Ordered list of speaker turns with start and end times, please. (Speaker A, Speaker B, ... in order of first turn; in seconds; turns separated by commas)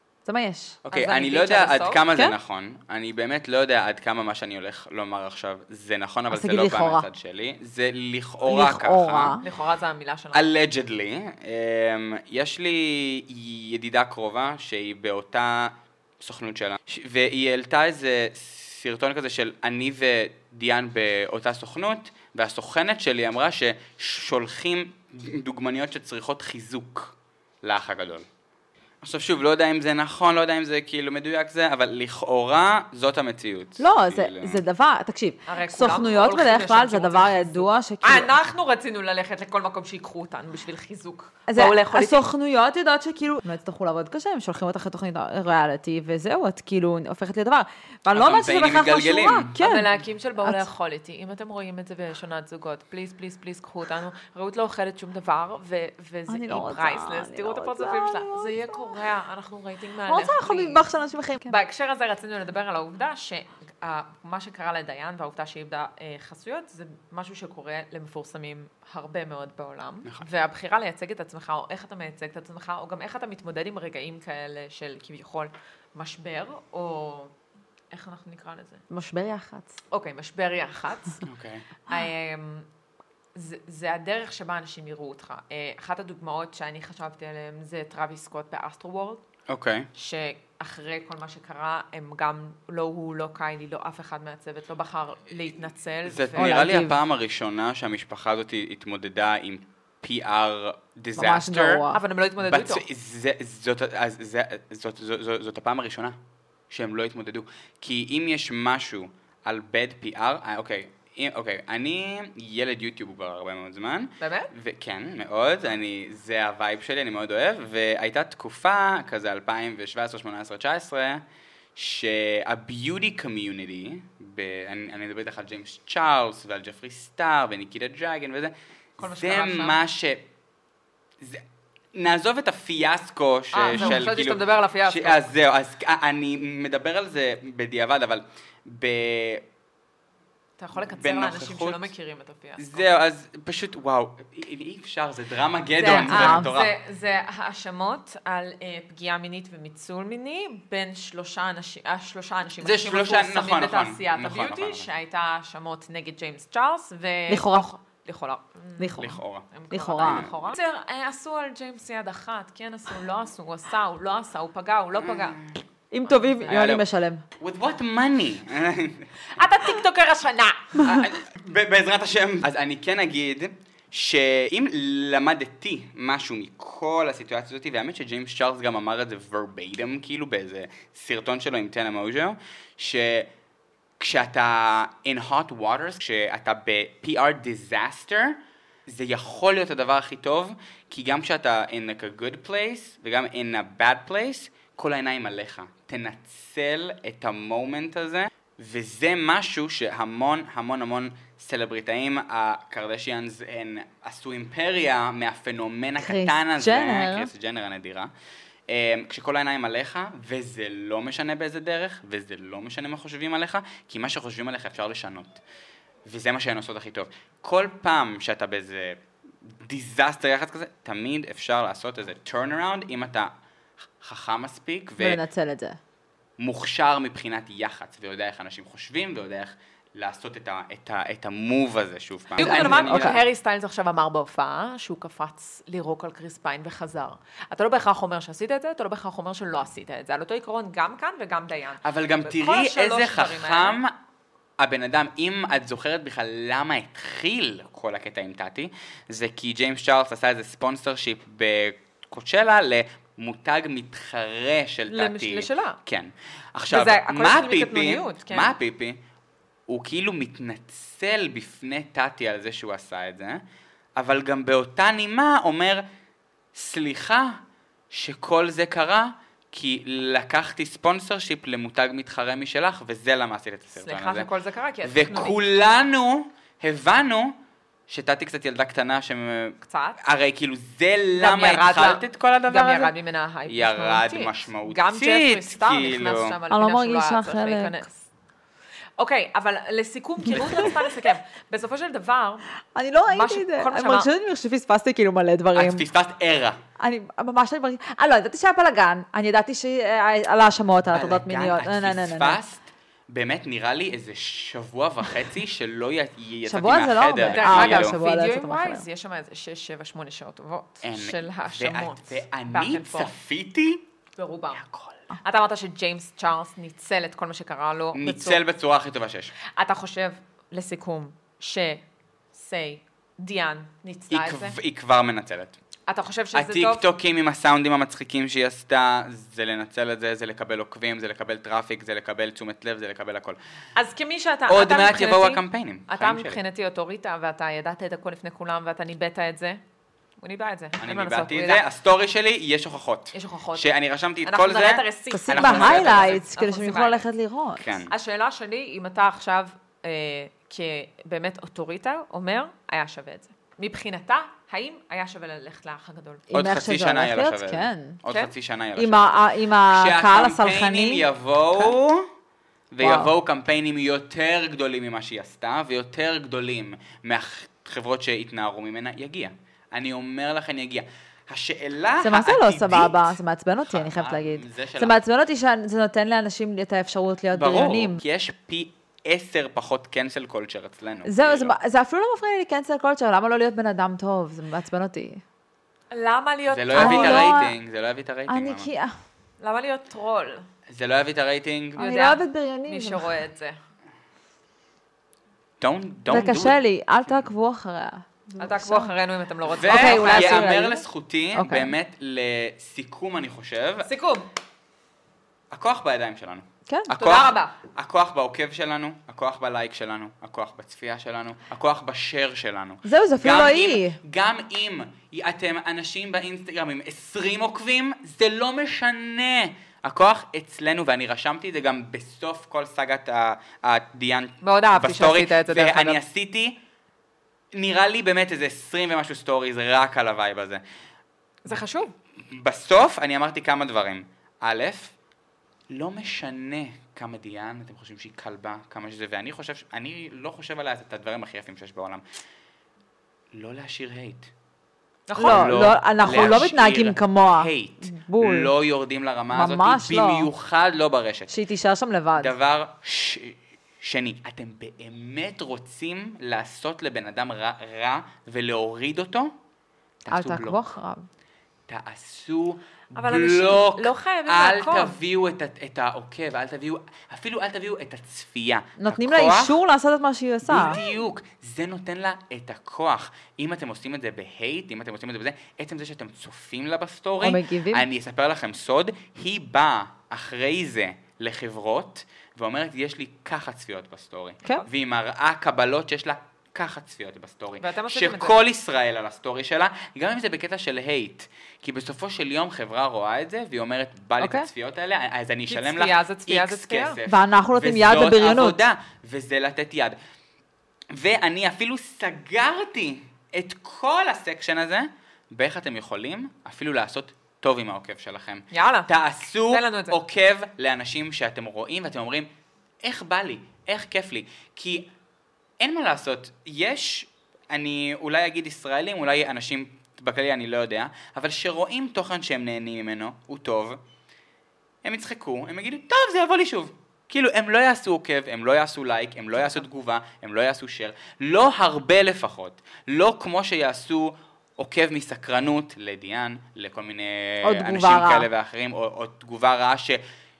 Speaker A: 0.2-0.8, Speaker B: 0.8-9.4, Speaker C: 0.9-2.0, Speaker A: 6.3-7.1, Speaker A: 8.4-9.4, Speaker C: 9.4-10.5, Speaker B: 10.3-28.2, Speaker B: 29.0-34.6, Speaker A: 33.8-38.5, Speaker C: 35.5-42.3, Speaker A: 41.5-50.7, Speaker B: 48.1-49.6, Speaker C: 49.6-60.8, Speaker A: 56.3-59.0, Speaker A: 60.0-61.6, Speaker C: 61.5-77.3, Speaker C: 77.9-78.8, Speaker A: 78.9-79.8, Speaker C: 79.9-81.2, Speaker B: 81.2-81.7, Speaker C: 81.9-82.7, Speaker C: 83.3-89.2, Speaker B: 89.5-89.9, Speaker C: 89.9-96.7, Speaker B: 96.0-101.8, Speaker A: 96.3-97.0, Speaker A: 101.1-102.0, Speaker C: 101.9-102.8, Speaker B: 102.4-106.2, Speaker B: 106.7-121.2, Speaker C: 114.2-114.5, Speaker B: 121.8-130.2, Speaker C: 129.0-129.8, Speaker B: 131.9-139.4, Speaker C: 133.5-135.3, Speaker C: 140.6-142.8, Speaker B: 140.8-141.9, Speaker B: 142.6-146.7, Speaker A: 145.8-146.6, Speaker C: 145.9-165.4, Speaker B: 152.6-154.9, Speaker A: 157.3-157.7, Speaker A: 158.8-160.3, Speaker B: 159.0-159.4, Speaker B: 160.0-160.3, Speaker B: 165.0-165.3, Speaker A: 165.9-167.2, Speaker C: 166.0-166.6, Speaker B: 166.5-166.9, Speaker B: 167.4-169.1, Speaker C: 169.3-170.8, Speaker B: 170.8-183.3, Speaker B: 184.0-208.1, Speaker A: 206.0-207.3, Speaker B: 208.7-215.4, Speaker B: 216.1-219.0, Speaker B: 219.6-223.3, Speaker B: 224.0-225.2, Speaker A: 225.0-225.8, Speaker B: 226.4-233.2, Speaker C: 232.3-243.8, Speaker A: 232.4-233.2, Speaker B: 241.8-243.9, Speaker B: 244.6-259.0, Speaker C: 254.9-255.8, Speaker C: 256.7-258.6, Speaker B: 259.7-263.4, Speaker B: 264.0-265.8, Speaker B: 266.5-267.4, Speaker B: 267.9-274.3, Speaker C: 273.7-275.4, Speaker B: 274.8-277.3, Speaker B: 277.9-282.9, Speaker C: 279.6-280.0, Speaker C: 281.2-287.9, Speaker B: 283.5-286.4, Speaker A: 286.5-287.8, Speaker C: 289.0-292.5, Speaker B: 290.4-290.8, Speaker A: 292.7-295.8, Speaker C: 293.1-294.1, Speaker B: 295.5-296.6, Speaker A: 296.8-302.4, Speaker B: 300.9-308.0, Speaker A: 306.4-308.9, Speaker C: 307.2-313.1, Speaker B: 310.8-313.9, Speaker C: 314.2-314.6, Speaker B: 314.5-315.1, Speaker C: 315.2-318.4, Speaker B: 317.9-319.3, Speaker C: 319.6-321.8, Speaker C: 322.3-324.6, Speaker B: 324.1-325.6, Speaker C: 325.9-326.8, Speaker B: 326.3-333.4, Speaker C: 333.8-339.6, Speaker B: 334.5-336.4, Speaker C: 340.2-341.6, Speaker B: 340.8-346.2, Speaker C: 343.1-347.1, Speaker A: 345.1-347.7, Speaker B: 347.6-347.9, Speaker C: 347.9-356.2, Speaker A: 356.3-358.0, Speaker B: 356.3-362.0, Speaker C: 358.1-358.3, Speaker A: 358.8-361.7, Speaker B: 362.7-375.0, Speaker A: 362.8-363.1, Speaker A: 372.0-378.0, Speaker B: 377.3-381.5, Speaker A: 381.0-385.2, Speaker C: 385.9-387.4, Speaker B: 386.5-388.7, Speaker A: 386.7-387.6, Speaker A: 388.3-388.9, Speaker C: 389.4-390.4, Speaker B: 390.7-391.9, Speaker A: 391.8-393.2, Speaker C: 391.8-393.6, Speaker B: 395.6-396.6, Speaker A: 396.1-398.9, Speaker C: 398.4-400.5, Speaker B: 399.4-403.9, Speaker A: 399.6-401.7, Speaker C: 403.8-404.3, Speaker B: 405.5-426.6, Speaker A: 406.7-406.9, Speaker C: 406.9-407.5, Speaker A: 412.8-414.0, Speaker C: 424.4-426.0, Speaker B: 427.5-430.6, Speaker C: 431.4-431.9, Speaker B: 432.3-434.9, Speaker B: 435.7-442.0, Speaker B: 443.3-444.3, Speaker C: 445.1-446.5, Speaker A: 445.2-448.5, Speaker B: 445.2-451.3, Speaker A: 449.3-450.3, Speaker A: 451.3-452.3, Speaker B: 452.2-459.3, Speaker B: 460.1-460.7, Speaker A: 460.1-461.1, Speaker B: 461.7-469.6, Speaker C: 462.9-465.0, Speaker A: 468.8-470.8, Speaker B: 470.4-500.0, Speaker A: 477.2-477.9, Speaker C: 487.6-488.4, Speaker A: 494.2-494.5, Speaker C: 495.5-497.0, Speaker A: 497.1-498.6, Speaker B: 500.9-512.3, Speaker C: 508.5-508.9, Speaker C: 509.5-510.0, Speaker B: 512.8-514.9, Speaker B: 515.6-523.8, Speaker B: 524.8-540.0, Speaker A: 537.4-538.3